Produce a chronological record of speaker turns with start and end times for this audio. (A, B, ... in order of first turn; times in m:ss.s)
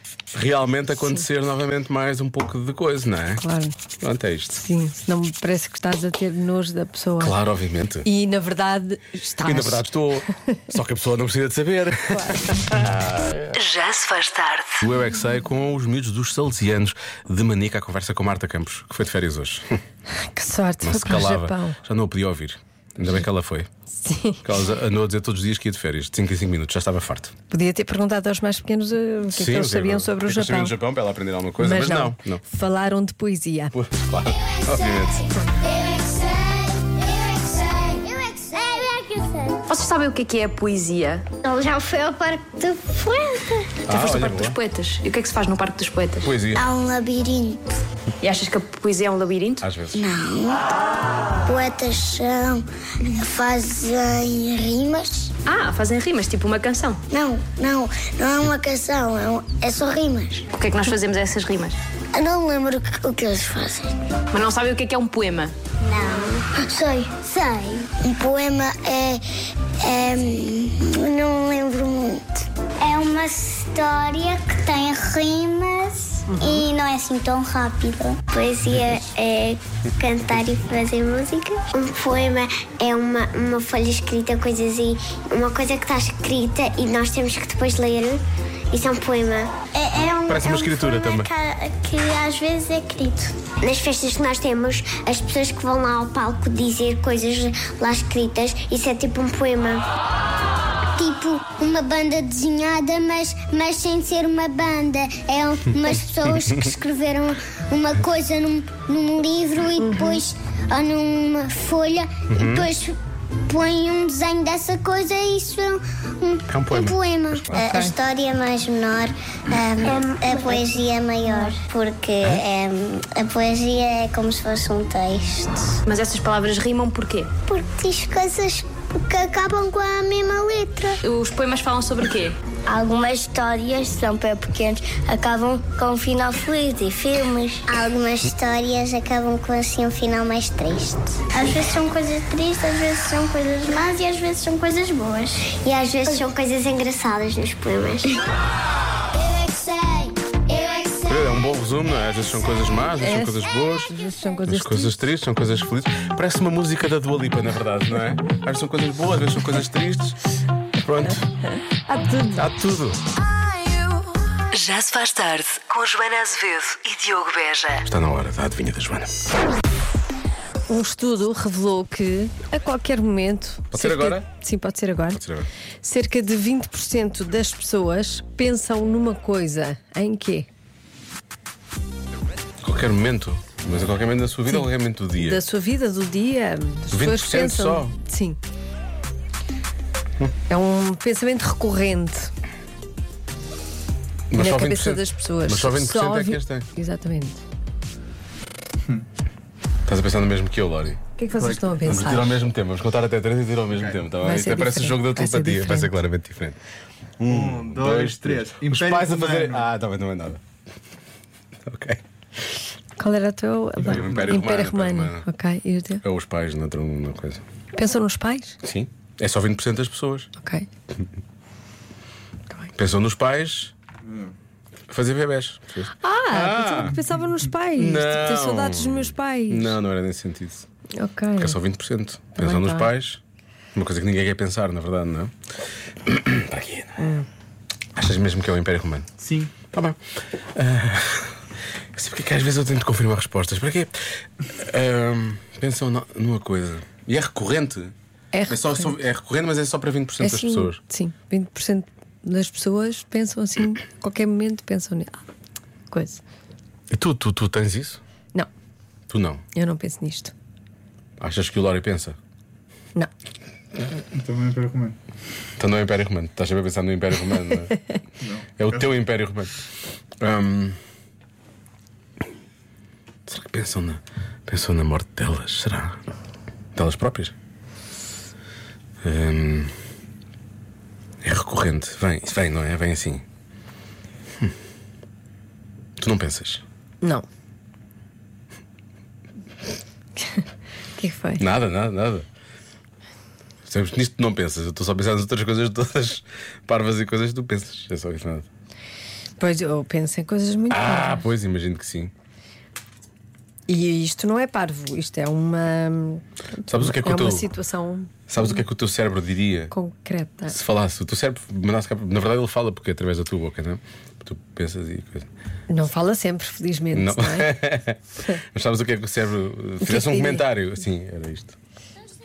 0:00.3-0:03.4 A
0:03.4-0:03.7 B
0:04.0-0:04.6 A
0:04.6-0:07.4 B
0:07.2-0:08.1 A
0:08.0-0:09.8 B
0:09.4-0:13.5 A
0:12.1-0:12.4 B
0:13.5-0:14.8 C
0:14.8-0:19.8 A
0:20.3-0:21.8 B
0:20.8-0:23.7 A
0:24.0-0:24.4 B
0:24.4-0:27.3 A
0:27.5-0:30.7 B
0:29.3-0:32.4 A
0:31.6-0:33.7 B
0:33.7-0:35.2 A
0:34.7-0:35.0 D
0:35.6-0:39.6 D
0:39.7-0:41.2 E
0:41.4-0:43.7 D
0:43.8-0:44.6 A
0:43.9-0:46.3 E
0:46.2-0:46.7 A
0:46.5-0:47.6 D
0:48.2-0:49.6 E
0:49.6-0:50.0 A
0:49.9-0:50.7 D
0:51.4-0:55.3 D
0:55.4-0:57.0 E
0:57.1-1:00.5 D
1:00.5-1:01.8 E
1:02.1-1:03.9 D
1:04.3-1:05.5 E
1:05.8-1:09.2 D
1:09.8-1:39.8 D
1:16.3-1:16.6 B
1:30.3-1:31.3 A
1:41.0-2:05.8 D
1:49.8-1:50.2 B
1:52.3-1:52.7 A
1:56.5-1:57.7 A
1:57.5-1:57.9 B
2:05.8-2:07.3 E
2:07.4-2:11.0 D
2:11.0-2:12.4 E
2:12.7-2:28.2 D
2:29.2-2:31.2 D
2:31.0-2:33.9 A
2:33.0-2:35.0 B
2:34.4-2:40.2 A
2:40.8-2:41.2 A
2:41.4-2:42.4 B
2:42.4-2:43.0 A
2:43.6-2:44.0 B
2:44.5-2:47.9 C
2:47.8-2:49.1 A
2:50.7-2:55.2 B
2:53.7-2:54.2 A
2:55.1-2:55.5 A
2:55.8-3:00.5 B
3:02.6-3:05.4 A
3:04.5-3:08.4 B
3:06.9-3:07.9 A
3:10.5-3:12.3 B
3:14.3-3:16.7 A
3:14.3-3:17.4 B
3:19.9-3:21.0 A
3:21.2-3:22.3 B
3:21.4-3:21.8 F
3:21.8-3:26.6 A
3:23.7-3:24.0 F
3:24.2-3:25.9 B
3:27.2-3:30.4 A
3:27.3-3:29.7 F
3:31.6-3:32.0 A
3:33.0-3:36.0 B
3:33.8-3:34.4 F
3:33.8-3:35.2 A
3:36.0-3:37.4 A
3:37.7-3:38.6 B
3:38.6-3:40.3 A
3:40.4-3:40.7 B
3:42.7-3:43.7 A
3:44.0-3:44.3 F
3:44.9-3:46.9 A
3:46.0-3:49.8 B
3:46.9-3:47.4 F
3:47.8-3:50.7 A
3:51.0-3:51.6 B
3:51.4-3:53.2 A
3:52.4-3:52.9 B
3:53.7-3:55.3 A
3:56.0-3:57.0 A
3:57.0-3:57.2 B
3:58.0-3:59.1 A
3:59.2-3:59.5 F
3:59.7-4:00.0 A
4:00.5-4:01.4 A
4:01.9-4:07.9 A
4:08.3-4:08.9 B
4:08.5-4:10.8 A
4:10.2-4:15.2 B
4:15.9-4:16.2 B
4:16.9-4:18.0 A
4:19.1-4:19.4 A
4:19.5-4:20.3 B
4:21.2-4:22.2 A
4:24.1-4:25.0 F
4:25.6-4:27.8 A
4:28.2-4:28.9 F
4:28.6-4:29.5 A
4:30.2-4:30.8 A
4:33.3-4:36.0 A
4:36.7-4:37.3 A
4:39.0-4:39.7 A
4:41.2-4:43.2 A
4:46.0-4:46.6 A
4:51.0-4:51.4 B
4:51.4-4:52.2 A
4:53.6-4:58.5 A
4:59.4-5:01.3 B
5:00.7-5:02.1 A
5:03.7-5:08.1 B
5:06.7-5:07.5 A
5:08.3-5:09.7 A
5:09.7-5:10.6 B
5:10.5-5:15.3 A
5:15.7-5:17.5 B
5:16.9-5:21.6 A
5:19.8-5:20.5 B